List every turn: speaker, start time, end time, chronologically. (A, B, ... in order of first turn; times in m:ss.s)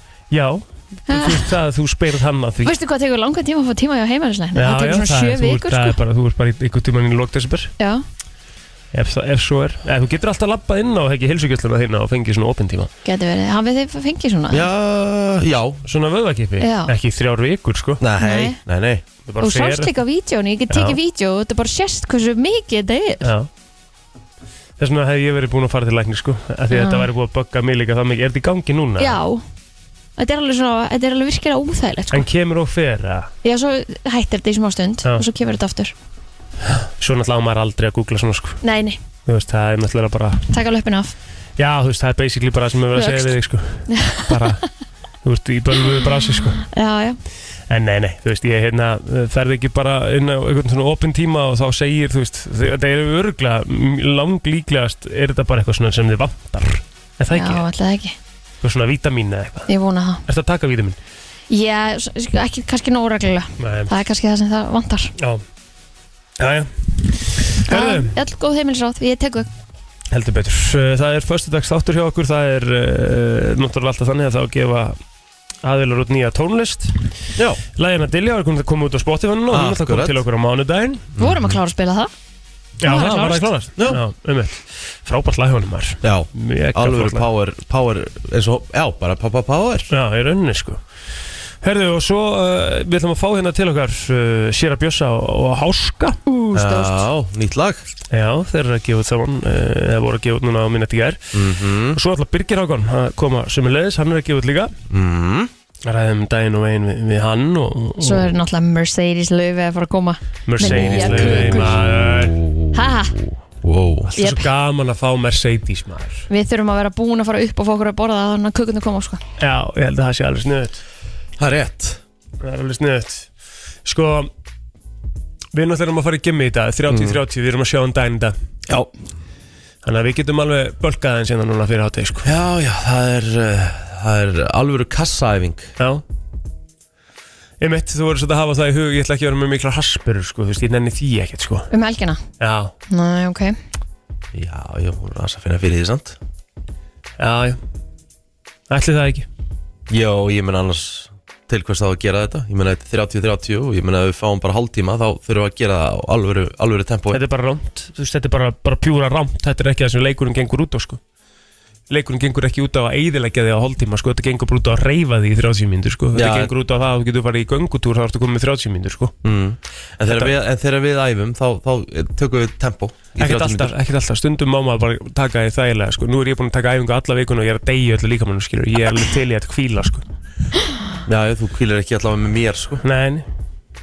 0:00.3-0:02.7 A
0:01.1-0:01.5 B
0:02.6-0:06.0 B
0:04.5-0:07.7 A
0:07.8-0:08.0 B
0:08.9-0:12.9 A
0:13.0-0:14.6 B
0:14.5-0:15.8 C
0:15.8-0:18.0 A
0:16.6-0:16.9 B
0:18.0-0:19.0 C
0:18.2-0:18.6 B
0:19.2-0:19.9 A
0:19.4-0:23.3 B
0:20.7-0:21.0 A
0:23.2-0:23.5 A
0:24.8-0:29.2 A
0:26.7-0:27.1 B
0:29.0-0:29.4 B
0:30.2-0:32.2 B
0:32.1-0:33.3 A
0:33.4-0:35.9 B
0:36.7-0:38.6 A
0:38.6-0:39.0 B
0:39.2-0:40.4 A
0:40.5-0:41.1 B
0:41.6-0:44.7 A
0:42.9-0:43.3 B
0:43.9-0:44.3 B
0:45.2-0:46.6 A
0:46.7-0:47.2 B
0:47.7-0:57.6 A
0:57.3-0:58.2 B
0:58.6-0:59.7 A
0:59.7-1:00.2 B
1:00.2-1:01.0 A
1:01.5-1:05.1 B
1:03.6-1:03.9 A
1:05.2-1:05.4 A
1:06.4-1:08.1 A
1:07.6-1:09.5 B
1:10.1-1:15.0 A
1:15.6-1:16.9 A
1:17.4-1:17.6 C
1:17.8-1:21.1 A
1:19.5-1:20.2 C
1:21.2-1:21.6 C
1:21.2-1:22.1 B
1:22.8-1:27.2 A
1:22.9-1:24.0 C
1:22.9-1:23.4 B
1:26.0-1:29.9 C
1:29.9-1:30.8 A
1:31.6-1:37.0 A
1:36.5-1:37.9 C
1:38.1-1:41.2 A
1:41.3-1:42.0 C
1:41.9-1:44.7 A
1:44.9-1:45.5 C
1:45.8-1:48.3 A
1:48.0-1:51.8 B
1:50.5-1:52.4 A
1:50.6-1:54.1 C
1:52.7-1:53.2 B
1:54.1-1:56.2 A
1:54.2-1:54.5 B
1:56.3-1:59.2 B
1:59.4-2:00.8 A
2:01.4-2:02.0 C
2:02.4-2:03.3 A
2:03.8-2:04.3 A
2:05.5-2:08.4 A
2:06.9-2:07.2 C
2:09.8-2:12.3 A
2:12.2-2:15.7 C
2:17.6-2:21.7 A
2:21.7-2:22.2 B
2:22.4-2:22.7 A
2:22.9-2:23.6 B
2:24.3-2:26.2 C
2:27.2-2:27.6 A
2:28.7-2:29.3 A
2:29.9-2:37.2 C
2:37.1-2:41.0 A
2:41.9-2:49.1 A
2:46.1-2:46.5 C
2:49.2-2:53.7 C
2:50.1-2:50.3 A
2:53.2-3:00.0 A
3:01.0-3:02.8 C
3:02.8-3:03.2 A